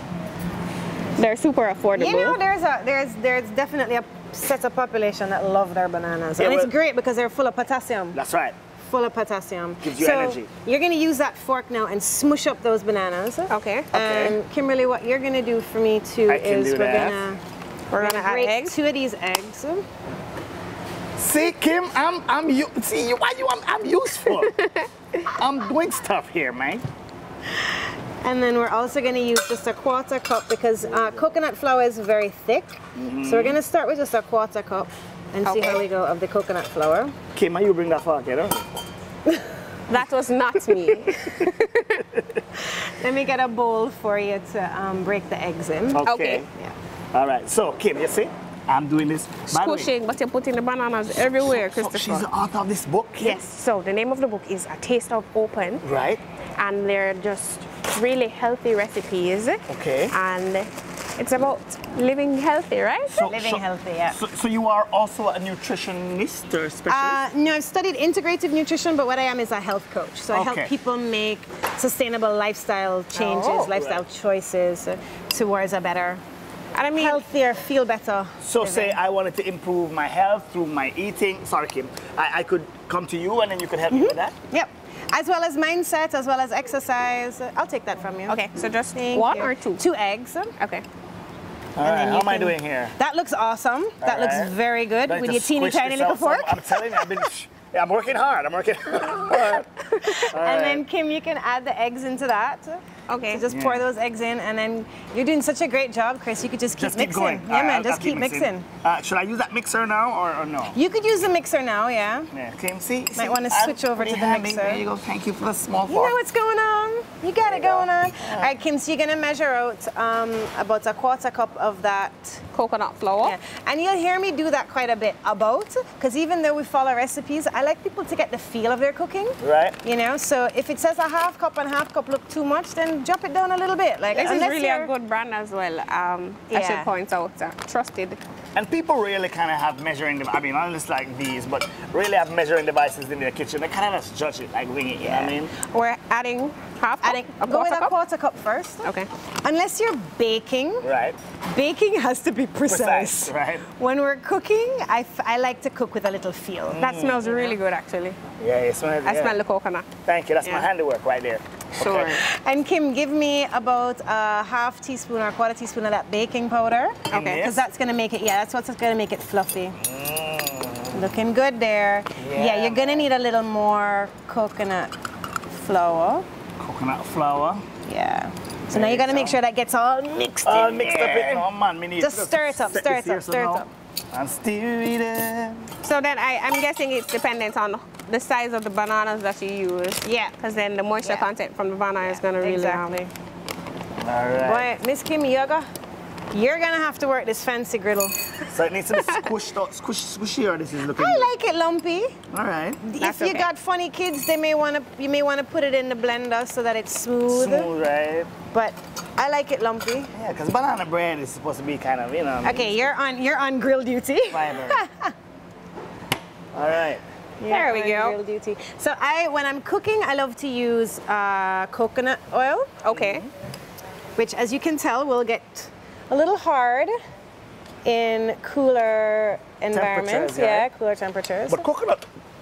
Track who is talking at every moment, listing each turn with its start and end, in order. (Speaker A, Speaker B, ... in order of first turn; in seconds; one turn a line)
Speaker A: 1.2-2.4
Speaker B: 1.9-8.2
Speaker C: 6.4-6.7
Speaker C: 8.1-8.6
Speaker B: 8.9-17.4
Speaker C: 9.8-10.5
Speaker A: 13.5-13.9
Speaker C: 13.9-14.4
Speaker C: 16.3-17.2
Speaker A: 17.9-18.7
Speaker B: 17.9-19.9
Speaker C: 21.2-24.6
Speaker A: 24.2-25.2
Speaker C: 25.3-26.8
Speaker B: 28.2-37.1
Speaker C: 32.9-33.6
Speaker A: 35.4-35.8
Speaker C: 37.3-38.7
Speaker A: 39.9-42.0
Speaker C: 42.1-42.4
Speaker B: 42.6-46.0
Speaker C: 45.9-46.5
Speaker A: 46.0-46.4
Speaker C: 47.1-49.9
Speaker A: 49.5-52.3
Speaker C: 51.4-53.4
Speaker A: 53.2-55.8
Speaker C: 55.8-56.2
Speaker A: 56.6-63.1
Speaker C: 59.7-60.1
Speaker C: 63.1-67.2
Speaker B: 63.2-64.2
Speaker B: 66.9-76.2
Speaker C: 70.3-70.7
Speaker A: 73.1-73.7
Speaker C: 73.7-74.0
Speaker A: 76.8-77.2
Speaker B: 76.9-79.0
Speaker C: 78.4-84.3
Speaker B: 83.9-88.4
Speaker A: 88.3-89.8
Speaker B: 88.9-90.5
Speaker A: 90.6-90.8
Speaker C: 91.8-92.9
Speaker B: 91.8-97.2
Speaker C: 94.0-94.5
Speaker C: 95.0-99.7
Speaker A: 99.9-100.2
Speaker B: 100.0-108.7
Speaker C: 100.3-100.8
Speaker A: 103.1-103.4
Speaker C: 103.5-103.8
Speaker C: 106.8-110.8
Speaker B: 110.7-112.3
Speaker C: 112.3-116.2
Speaker B: 113.1-114.8
Speaker B: 115.9-122.4
Speaker C: 117.4-118.5
Speaker A: 122.5-123.3
Speaker B: 123.2-134.9
Speaker C: 129.4-129.8
Speaker A: 134.1-138.2
Speaker B: 136.5-136.9
Speaker C: 138.5-145.5
Speaker A: 145.1-147.9
Speaker B: 147.0-148.9
Speaker B: 149.4-150.8
Speaker C: 150.8-151.2
Speaker B: 151.4-157.6
Speaker C: 152.7-153.6
Speaker A: 156.8-158.2
Speaker C: 156.8-157.3
Speaker C: 158.4-159.4
Speaker A: 159.0-160.7
Speaker C: 160.1-162.2
Speaker A: 161.8-162.2
Speaker B: 162.1-169.8
Speaker A: 167.1-167.4
Speaker C: 167.1-167.6
Speaker C: 169.8-171.0
Speaker B: 170.9-174.9
Speaker C: 172.2-173.1
Speaker B: 175.5-176.2
Speaker C: 176.6-177.6
Speaker B: 177.8-181.5
Speaker C: 178.7-179.4
Speaker C: 180.4-185.7
Speaker B: 182.0-183.7
Speaker A: 185.8-193.1
Speaker B: 190.0-190.3
Speaker B: 191.0-191.3
Speaker B: 192.0-192.8
Speaker C: 194.0-194.7
Speaker B: 194.4-195.7
Speaker B: 196.3-198.2
Speaker C: 198.5-201.3
Speaker B: 200.9-202.2
Speaker C: 202.3-202.8
Speaker B: 202.8-207.7
Speaker A: 203.0-203.5
Speaker C: 207.3-208.3
Speaker B: 208.5-210.1
Speaker C: 210.1-212.8
Speaker B: 212.4-215.1
Speaker C: 214.3-214.8
Speaker C: 216.5-217.0
Speaker B: 217.4-222.7
Speaker A: 217.4-218.2
Speaker A: 222.8-223.2
Speaker C: 222.9-223.3
Speaker B: 224.2-226.9
Speaker B: 227.8-231.7
Speaker C: 229.7-230.7
Speaker C: 231.5-232.0